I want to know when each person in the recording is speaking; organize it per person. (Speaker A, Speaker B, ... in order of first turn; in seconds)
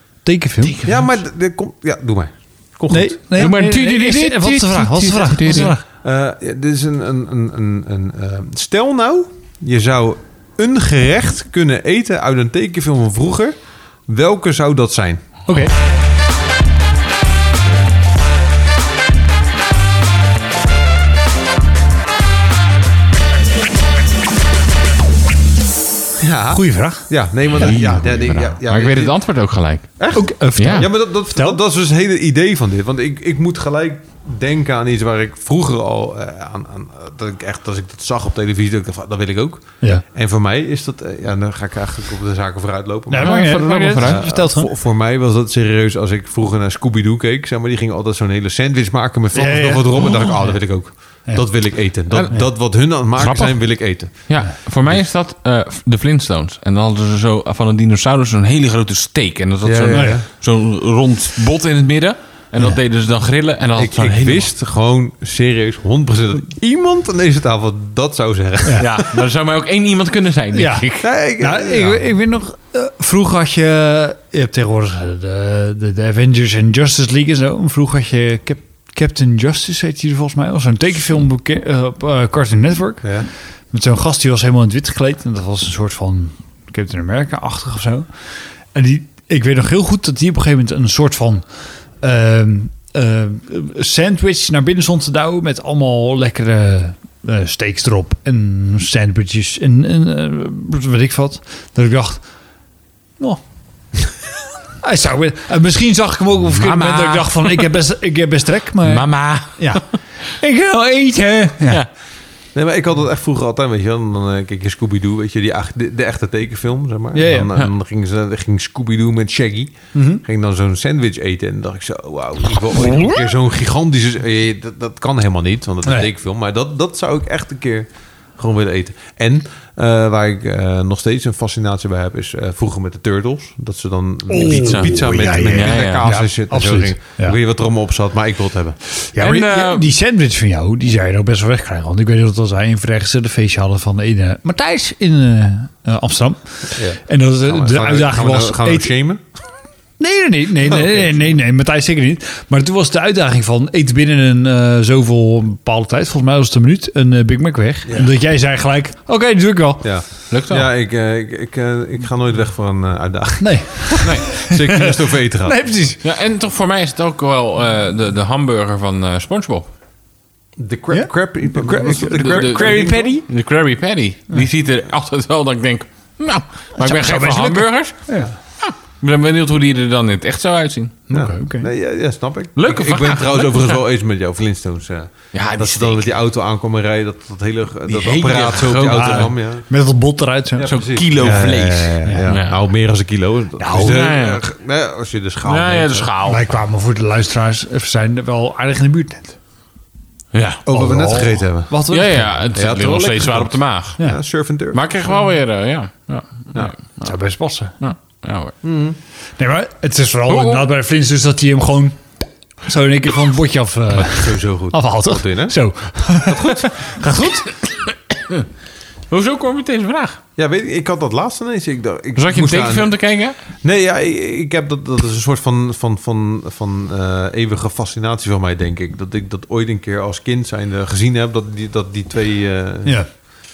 Speaker A: 0.2-0.8, 2.9-5.8, 15.5-15.7, 26.5-28.6, 30.1-31.6, 43.1-44.7, 49.3-52.5, 59.9-60.2, 70.5-102.2, 104.8-111.8, 117.1-117.5, 119.9-120.2, 134.3-137.4, 139.1-148.9, 150.0-160.0, 163.4-166.0, 170.9-173.2, 176.8-178.3, 181.1-181.7, 189.0-191.5, 192.1-192.3, 193.6-194.0, 196.2-199.4, 200.7-202.4, 207.0-207.7, 209.4-212.0, 212.6-217.4
Speaker B: 0.6-1.1, 3.4-5.8, 27.6-28.1, 28.6-30.9, 43.2-44.2, 52.1-64.5, 68.8-71.1, 106.4-107.8, 108.8-110.0, 134.5-136.0, 139.2-139.9, 160.3-160.7, 166.0-169.7, 171.9-178.1, 178.6-181.0, 182.6-183.8, 185.3-186.1, 187.9-189.3, 190.7-192.6, 193.8-194.4, 195.4-196.4, 200.3-200.7, 201.9-204.0, 204.7-207.2, 207.8-208.6, 210.3-210.7, 217.5-218.4, 219.1-220.2, 222.2-223.4
Speaker C: 0.8-3.5, 5.5-13.6, 14.1-15.2, 26.2-29.3, 30.0-55.0, 59.6-60.3, 63.8-69.2, 71.0-72.1, 83.0-83.3, 112.5-138.8, 146.8-149.2, 150.6-151.3, 157.8-158.1, 159.8-165.7, 170.6-173.2, 181.1-189.7, 190.6-196.1, 200.7-201.8, 202.5-204.8, 208.6-209.0, 214.0-215.6, 216.3-217.4, 220.4-223.0, 223.6-233.0